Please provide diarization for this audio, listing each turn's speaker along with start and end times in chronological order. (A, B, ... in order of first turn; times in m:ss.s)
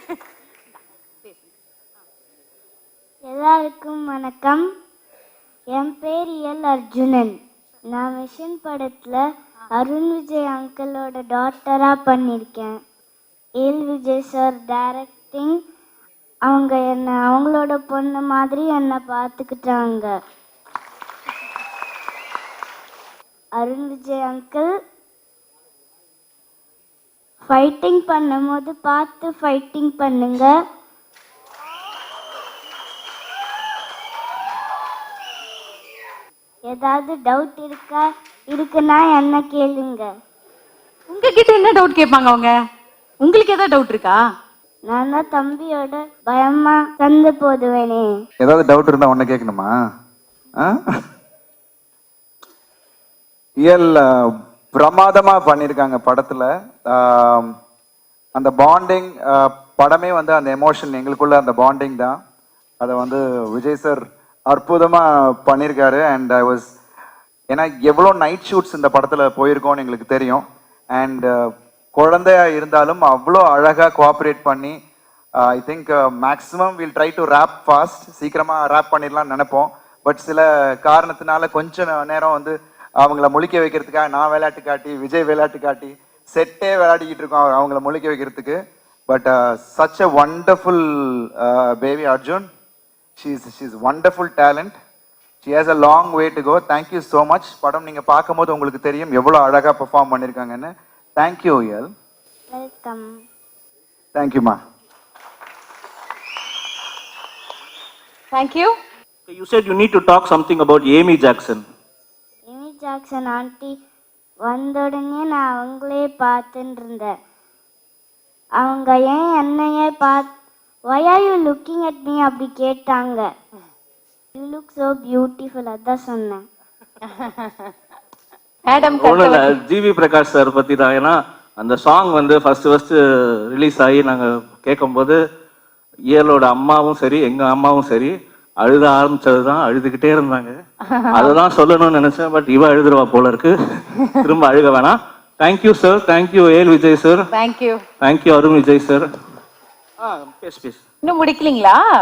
0:03.3-0:04.6 A
0:05.7-0:07.3 A
0:07.9-0:09.2 A
0:09.8-0:12.8 A
0:13.6-0:15.6 A
0:16.5-0:20.1 A
0:23.6-0:24.7 A
0:27.5-0:30.5 A
0:36.7-0:40.1 A
0:41.1-0:42.5 B
0:43.2-0:44.2 B
0:44.9-0:48.1 A
0:48.4-0:49.7 C
0:53.6-0:57.5 C
0:58.4-1:02.2 C
1:02.8-1:06.7 C
1:07.5-1:14.8 C
1:15.4-1:32.5 C
1:33.2-1:34.8 C
1:35.4-1:41.9 C
1:42.5-1:43.1 A
1:44.2-1:44.6 C
1:48.3-1:48.7 B
1:49.3-1:51.6 D
1:52.5-1:53.7 A
1:54.4-1:57.1 A
1:58.6-2:00.3 A
2:00.9-2:03.3 A
2:04.4-2:06.4 A
2:07.1-2:07.5 B
2:08.7-2:09.6 B
2:08.8-2:15.2 D
2:16.1-2:20.6 D
2:20.9-2:21.4 B
2:21.1-2:27.2 D
2:27.3-2:27.8 B
2:28.0-2:29.1 D
2:30.0-2:30.8 D
2:31.0-2:31.8 B